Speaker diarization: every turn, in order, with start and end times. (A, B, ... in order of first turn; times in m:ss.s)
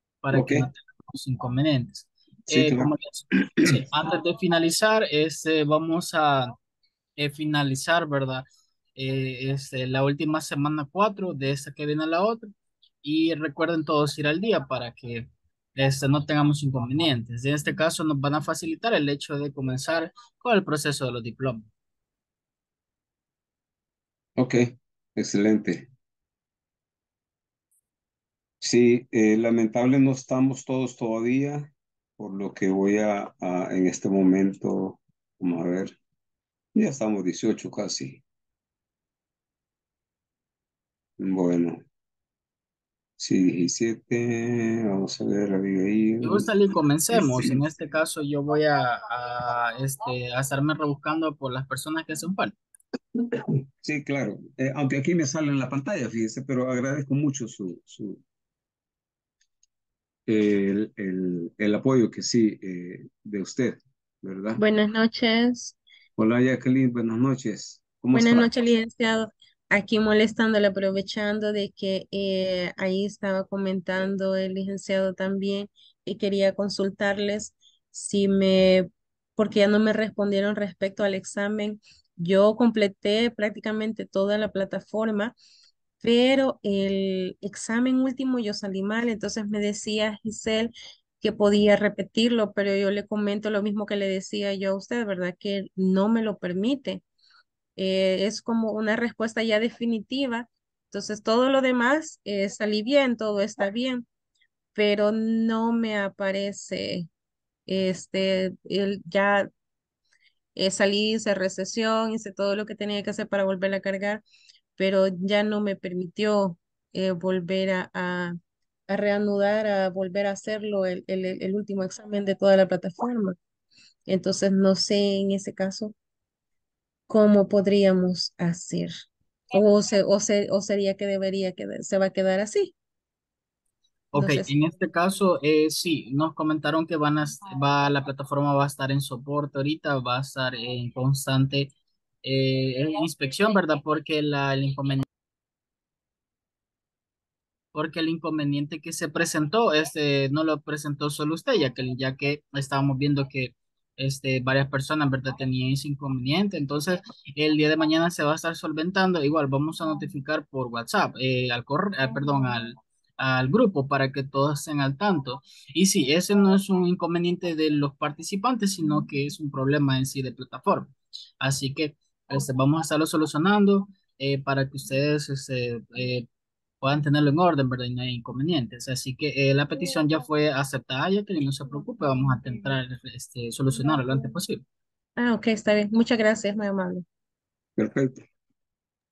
0:00.2-0:06.6 A
0:00.3-0:00.7 B
0:02.5-0:02.9 B
0:07.2-0:08.4 A
0:09.0-0:12.5 A
0:13.0-0:21.7 A
0:24.4-0:25.9 B
0:28.6-0:36.0 B
0:36.7-0:38.2 B
0:41.2-0:41.8 B
0:43.2-0:46.5 B
0:46.2-0:52.6 A
0:47.1-0:47.5 B
0:53.3-0:58.2 B
1:00.3-1:04.6 B
1:04.6-1:05.8 C
1:06.2-1:08.5 B
1:08.1-1:25.3 C
1:26.0-1:37.0 C
1:37.8-1:44.0 C
1:44.7-1:47.1 C
1:47.7-1:49.5 C
1:50.6-1:54.2 C
1:54.8-1:58.4 C
1:58.9-2:03.4 C
2:04.1-2:05.9 C
2:07.1-2:08.9 C
2:09.5-2:12.7 C
2:14.1-2:25.0 A
2:14.1-2:14.5 C
2:27.7-2:56.3 A
2:56.8-3:04.6 A
3:05.2-3:07.0 C
3:07.8-3:08.2 B